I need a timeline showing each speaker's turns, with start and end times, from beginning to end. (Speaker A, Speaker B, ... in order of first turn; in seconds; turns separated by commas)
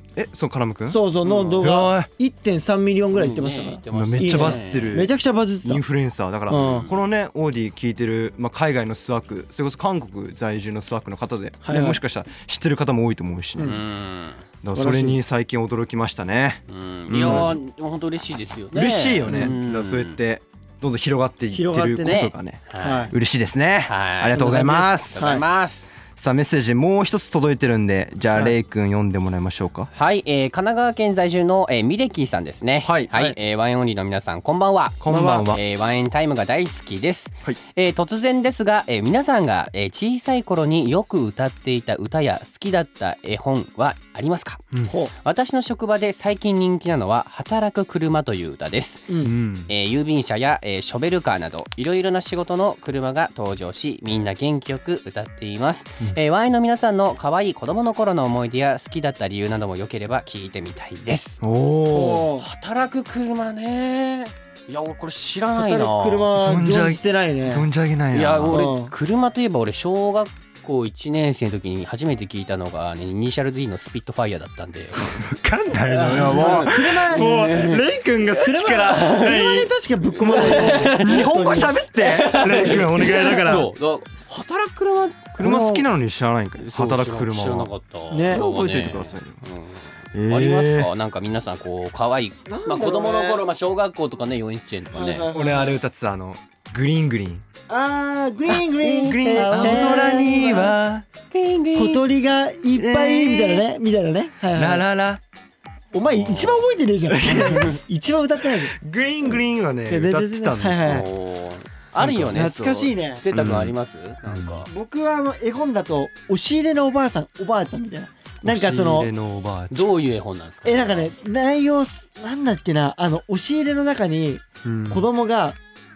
Speaker A: 0.1-1.0, Speaker B: 0.9-5.8, Speaker C: 1.2-1.7, Speaker A: 1.6-2.1, Speaker C: 3.1-5.0, Speaker A: 3.9-5.1, Speaker A: 5.6-13.8, Speaker B: 6.5-6.9, Speaker C: 6.5-6.9, Speaker B: 11.6-12.0, Speaker C: 13.6-14.4, Speaker A: 14.6-17.6, Speaker B: 14.7-15.2, Speaker C: 16.7-20.2, Speaker A: 18.7-29.9, Speaker B: 19.3-19.5, Speaker B: 21.5-23.1, Speaker C: 22.0-23.1, Speaker C: 23.9-25.9, Speaker B: 25.1-25.4, Speaker C: 29.9-44.6, Speaker A: 32.8-33.3, Speaker A: 35.0-35.6, Speaker B: 35.1-35.5, Speaker B: 44.9-45.1, Speaker C: 45.2-49.1, Speaker A: 49.2-49.7, Speaker C: 49.7-61.4, Speaker A: 61.4-62.3, Speaker B: 61.9-62.5, Speaker C: 62.4-66.3, Speaker B: 65.5-67.7, Speaker A: 66.3-68.6, Speaker C: 68.1-75.2, Speaker B: 68.5-68.9, Speaker A: 75.0-79.7, Speaker C: 75.9-77.9, Speaker B: 76.2-77.5, Speaker B: 78.4-81.8, Speaker C: 78.6-79.4, Speaker C: 80.2-81.3, Speaker A: 80.2-83.7, Speaker C: 81.9-85.8, Speaker A: 85.4-87.7, Speaker C: 86.6-95.3, Speaker B: 88.1-88.4, Speaker A: 88.3-89.4, Speaker A: 90.1-90.9, Speaker B: 92.5-93.4, Speaker B: 94.9-95.8, Speaker A: 95.3-97.4, Speaker B: 97.7-100.7, Speaker C: 98.5-100.6, Speaker A: 99.0-101.0, Speaker C: 101.3-102.0, Speaker B: 101.7-104.8, Speaker A: 102.8-103.6, Speaker A: 104.5-105.2, Speaker B: 105.9-108.7, Speaker C: 106.1-106.6, Speaker A: 107.1-107.7, Speaker A: 108.6-111.0, Speaker B: 109.9-111.1, Speaker C: 110.8-114.7, Speaker A: 112.0-112.5, Speaker B: 112.3-113.2, Speaker A: 113.3-113.7, Speaker A: 114.2-114.6, Speaker B: 114.7-119.1, Speaker A: 118.4-119.9, Speaker C: 119.7-121.1, Speaker B: 120.6-125.6, Speaker A: 124.6-125.0